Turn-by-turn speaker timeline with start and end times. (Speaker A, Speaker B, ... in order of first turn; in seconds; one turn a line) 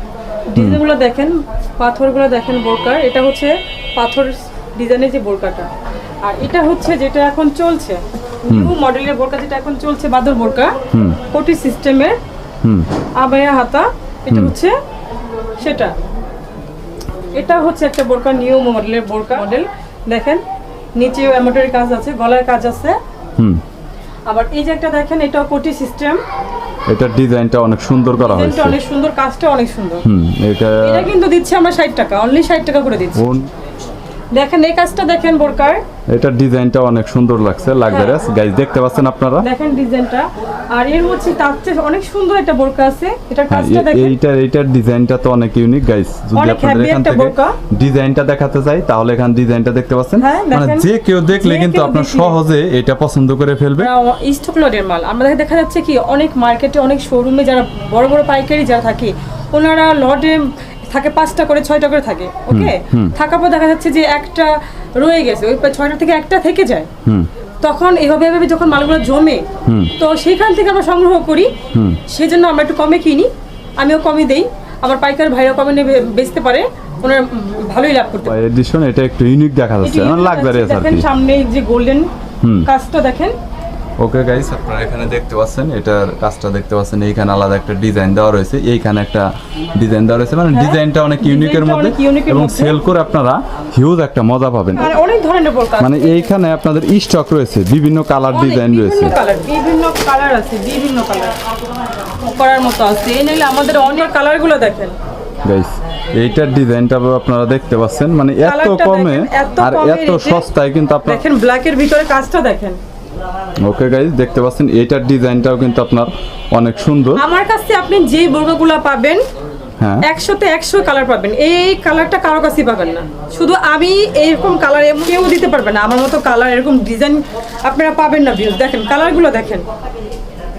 Speaker A: 0.5-5.7
Speaker B: 0.5-0.8
Speaker A: 6.2-10.8
Speaker B: 8.5-8.7
Speaker B: 10.9-11.2
Speaker A: 11.3-12.2
Speaker B: 12.6-12.9
Speaker A: 13.2-14.7
Speaker A: 15.6-15.9
Speaker A: 17.3-20.4
Speaker A: 20.9-23.0
Speaker B: 23.4-23.6
Speaker A: 24.2-26.2
Speaker B: 26.9-28.8
Speaker A: 28.1-30.0
Speaker B: 30.0-31.1
Speaker A: 30.8-33.2
Speaker B: 33.1-33.5
Speaker A: 34.3-35.8
Speaker B: 36.1-39.5
Speaker A: 37.8-38.2
Speaker A: 39.4-44.1
Speaker B: 43.5-53.9
Speaker A: 46.3-47.6
Speaker A: 50.2-52.4
Speaker A: 53.8-66.9
Speaker B: 62.5-63.1
Speaker A: 67.6-69.5
Speaker B: 69.7-69.9
Speaker A: 70.0-71.5
Speaker B: 71.7-72.0
Speaker A: 72.1-78.4
Speaker B: 78.2-81.0
Speaker A: 79.8-82.1
Speaker B: 82.4-82.7
Speaker A: 82.6-83.3
Speaker B: 84.0-94.9
Speaker A: 90.5-92.8
Speaker A: 94.8-96.3
Speaker B: 95.8-99.2
Speaker A: 98.3-101.3
Speaker A: 102.2-104.9
Speaker B: 105.4-111.2
Speaker A: 108.4-110.5
Speaker A: 111.0-112.8
Speaker B: 113.6-117.2
Speaker A: 117.1-119.2
Speaker B: 119.8-120.0
Speaker A: 120.0-129.7